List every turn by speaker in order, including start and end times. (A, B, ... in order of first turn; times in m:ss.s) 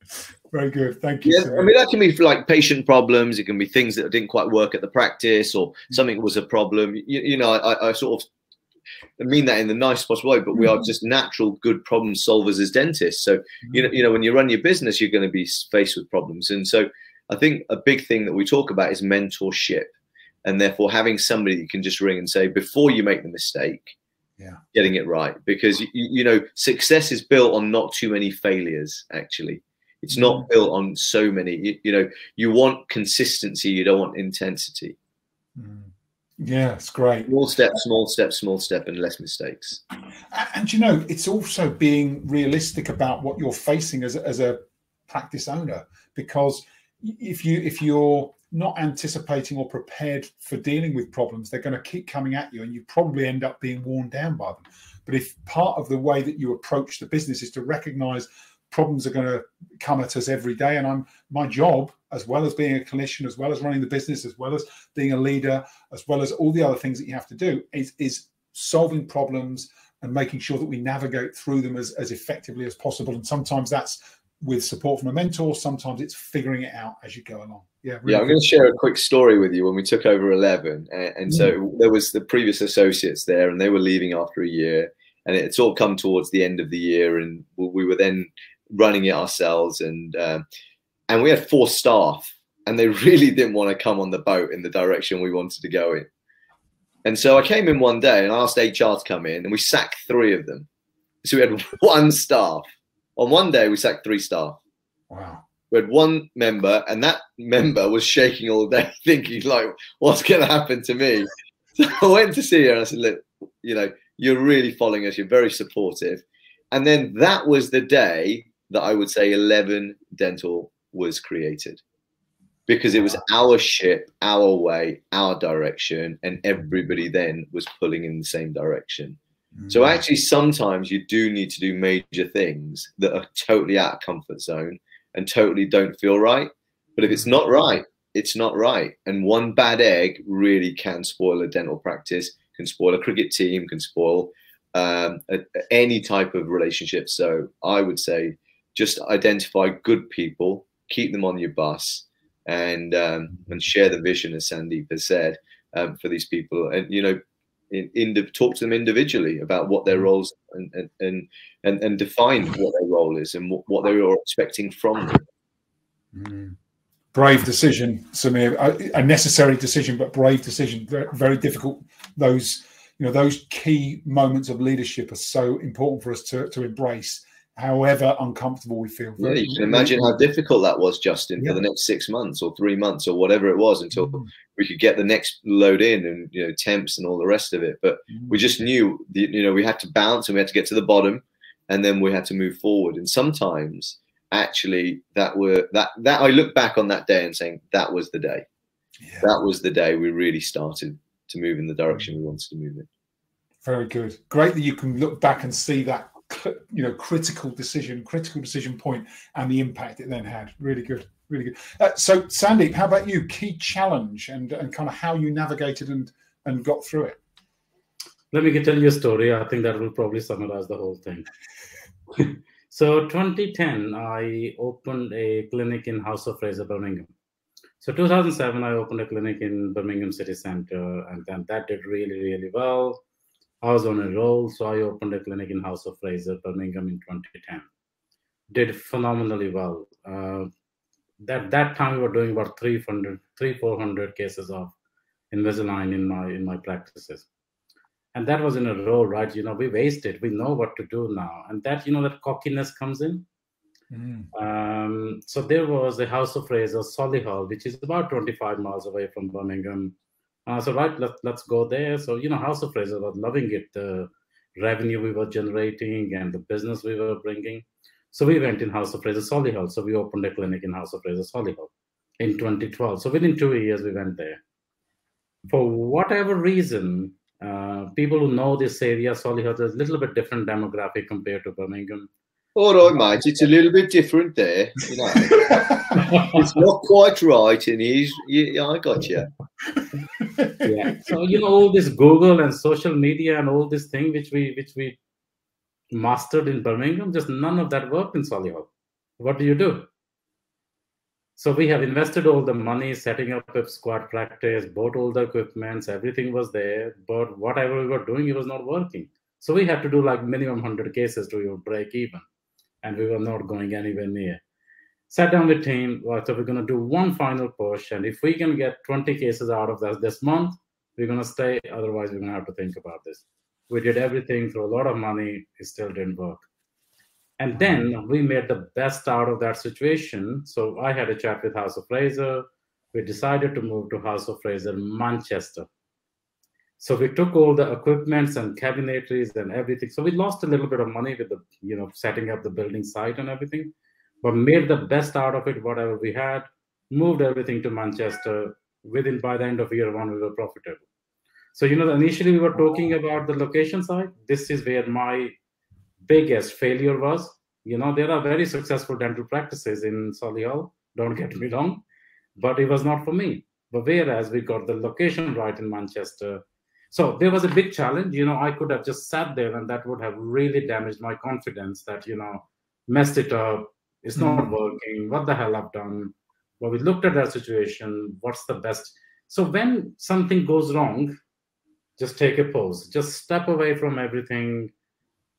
0:00.5-0:01.7 A
0:01.2-0:08.3 B
0:09.2-0:19.9 B
0:20.4-0:23.9 B
0:24.7-0:35.0 B
0:30.1-0:30.5 A
0:35.6-0:37.3 A
0:37.3-0:39.8 B
0:40.3-1:18.5 A
1:18.1-1:30.4 B
1:31.1-1:36.1 B
1:37.0-1:40.7 B
1:41.2-1:44.6 B
1:45.1-1:45.4 A
1:45.7-2:01.8 B
2:02.7-2:09.2 B
2:09.6-2:10.0 A
2:09.7-2:37.2 B
2:37.7-2:45.2 B
2:46.1-2:46.6 A
2:47.1-3:00.2 A
2:59.2-3:18.5 B
3:04.0-3:04.3 A
3:08.1-3:08.4 A
3:19.0-3:19.3 A
3:19.2-3:22.9 B
3:23.6-3:37.2 A
3:38.3-3:41.3 C
3:42.2-3:47.1 C
3:47.8-3:53.0 C
3:53.6-3:57.7 C
3:58.5-4:00.5 C
4:01.2-4:04.7 C
4:05.3-4:07.3 C
4:08.2-4:13.3 C
4:13.9-4:14.3 A
4:14.3-4:34.4 C
4:35.5-4:42.1 C
4:42.6-4:45.5 B
4:45.3-4:46.3 A
4:46.0-4:46.4 C
4:46.3-4:49.3 B
4:50.2-4:51.1 A
4:50.6-4:55.0 C
4:55.9-4:59.9 C
5:01.4-5:12.2 C
5:12.8-5:14.4 C
5:15.1-5:26.5 C
5:27.4-5:35.7 C
5:27.6-5:27.8 A
5:36.8-5:50.8 C
5:51.6-5:55.3 C
5:56.1-6:01.8 C
6:02.4-6:21.2 C
6:14.2-6:14.5 A
6:22.0-6:24.7 C